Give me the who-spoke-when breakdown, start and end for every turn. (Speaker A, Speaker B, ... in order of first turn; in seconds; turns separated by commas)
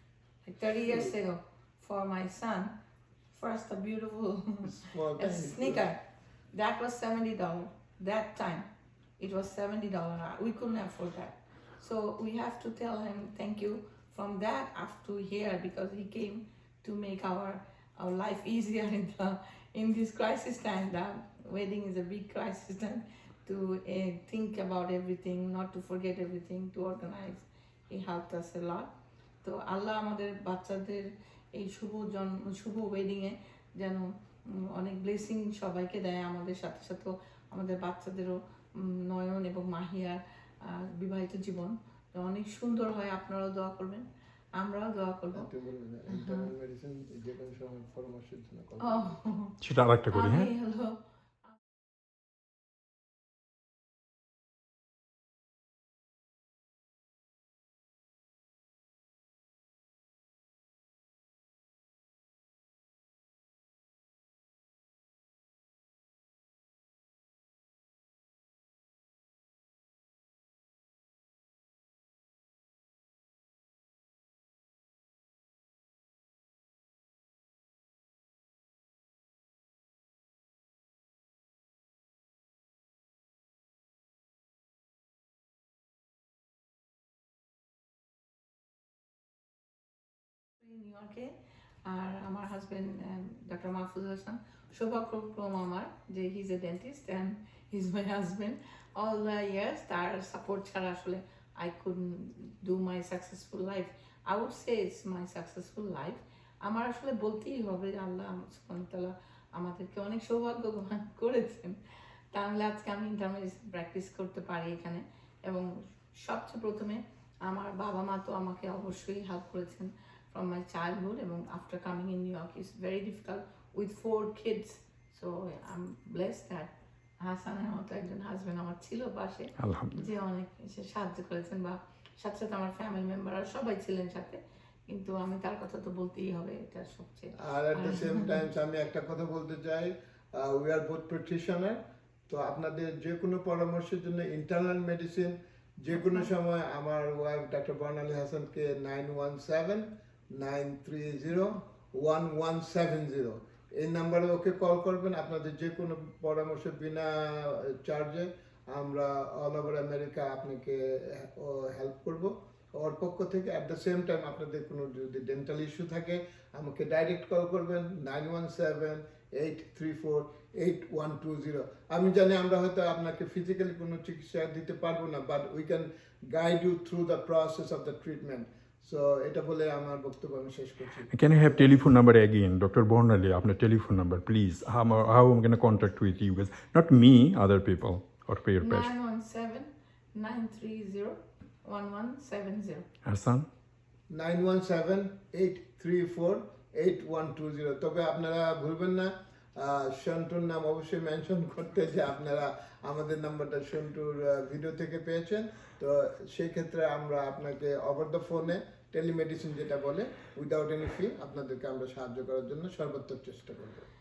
Speaker A: 0.4-2.8, Speaker A: 3.3-4.6, Speaker B: 4.6-5.9, Speaker A: 5.2-28.9, Speaker A: 29.4-44.1, Speaker A: 44.6-45.5, Speaker B: 45.3-49.1, Speaker A: 46.1-46.5, Speaker A: 48.8-49.6, Speaker C: 49.6-50.5, Speaker A: 50.1-51.0, Speaker A: 90.6-111.8, Speaker A: 112.3-138.4, Speaker C: 129.6-130.0, Speaker B: 137.4-181.9, Speaker C: 181.1-188.9, Speaker A: 188.6-192.9, Speaker C: 193.1-193.5, Speaker B: 194.1-213.9